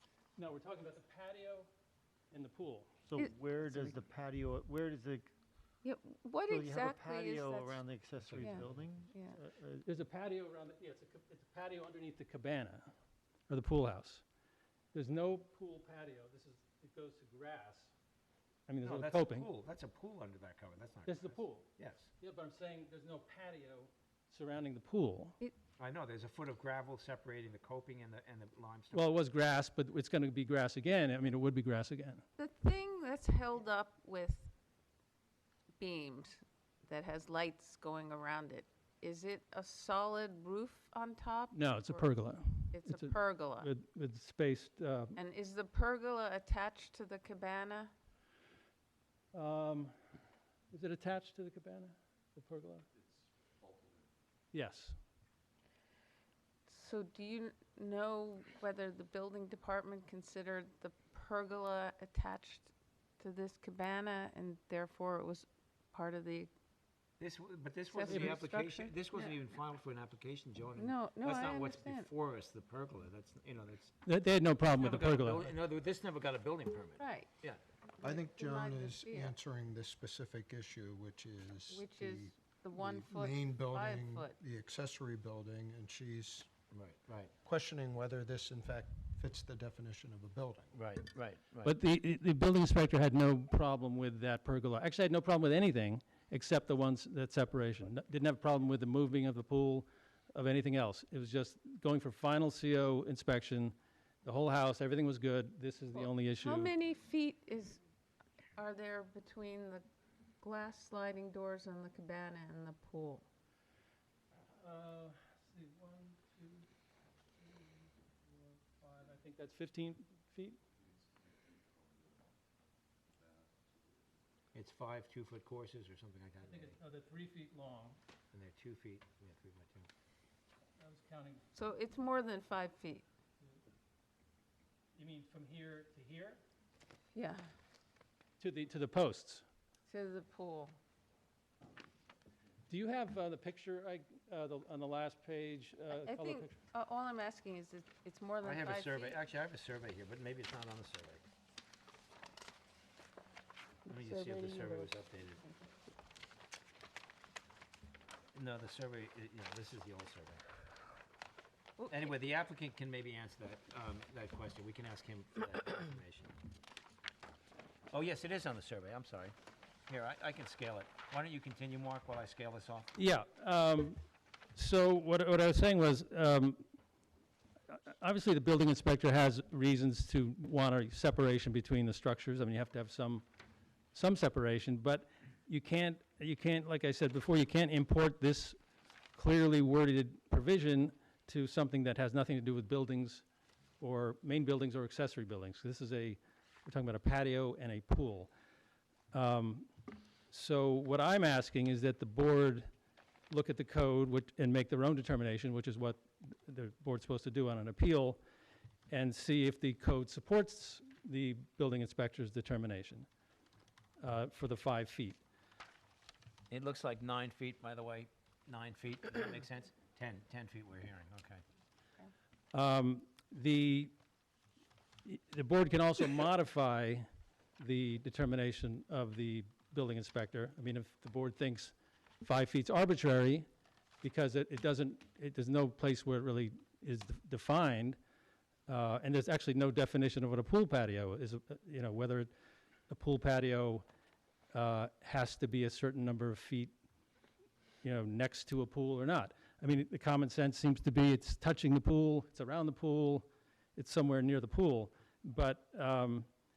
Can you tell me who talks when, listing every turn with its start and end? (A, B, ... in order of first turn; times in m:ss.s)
0:00.4-0:01.7 A
0:02.3-0:02.9 A
0:03.1-0:05.3 B
0:05.8-0:07.8 C
0:06.5-0:09.8 B
0:08.3-0:08.8 D
0:08.4-0:09.4 C
0:09.8-0:12.9 A
0:13.5-0:14.2 A
0:14.9-0:17.9 A
0:18.7-0:19.5 A
0:18.8-0:22.1 D
0:21.1-0:25.4 A
0:25.8-0:29.0 D
0:28.9-0:32.2 A
0:32.4-0:34.5 C
0:35.8-0:42.1 C
0:41.5-0:45.2 A
0:42.7-0:43.7 C
0:45.2-0:47.9 C
0:49.3-0:49.9 A
0:50.7-0:52.8 A
0:54.5-0:55.0 A
0:56.7-1:06.5 C
1:07.2-1:13.9 D
1:07.9-1:09.4 C
1:08.1-1:08.4 A
1:10.7-1:12.1 C
1:14.0-1:15.5 A
1:14.8-1:17.6 D
1:17.0-1:17.3 C
1:18.0-1:19.4 C
1:18.0-1:26.5 E
1:21.7-1:24.4 C
1:26.7-1:27.3 D
1:27.4-1:30.7 E
1:30.7-1:31.7 D
1:31.6-1:46.7 A
1:45.9-1:47.8 C
1:48.6-1:49.8 C
1:50.4-1:53.2 C
1:54.6-1:56.7 A
1:57.4-2:00.6 A
2:04.5-2:06.8 D
2:06.4-2:08.0 A
2:08.3-2:09.9 D
2:10.8-2:11.4 A
2:11.5-2:13.0 C
2:14.9-2:16.4 A
2:17.1-2:17.5 C
2:18.4-2:19.4 A
2:19.9-2:20.7 C
2:22.7-2:26.6 A
2:25.9-2:29.2 C
2:28.4-2:31.2 D
2:33.9-2:35.4 D
2:33.9-2:35.7 C
2:38.3-2:40.4 D
2:41.8-2:42.1 C
2:41.9-2:46.3 D
2:47.9-2:49.3 D
2:49.9-2:52.9 D
2:52.9-2:54.0 A
2:54.5-2:56.6 A
2:57.7-3:03.2 A
3:03.9-3:08.6 A
3:09.1-3:13.2 A
3:13.8-3:18.3 A
3:19.1-3:19.7 A
3:20.3-3:22.7 A
3:23.3-3:28.2 A
3:28.9-3:33.1 A
3:34.0-3:35.2 A
3:36.5-3:41.4 D
3:42.5-3:43.9 A
3:45.0-3:47.1 A
3:47.6-3:53.5 A
3:54.0-3:58.0 A
3:58.7-4:02.3 A
4:02.9-4:03.8 A
4:04.5-4:06.7 A
4:07.8-4:16.3 A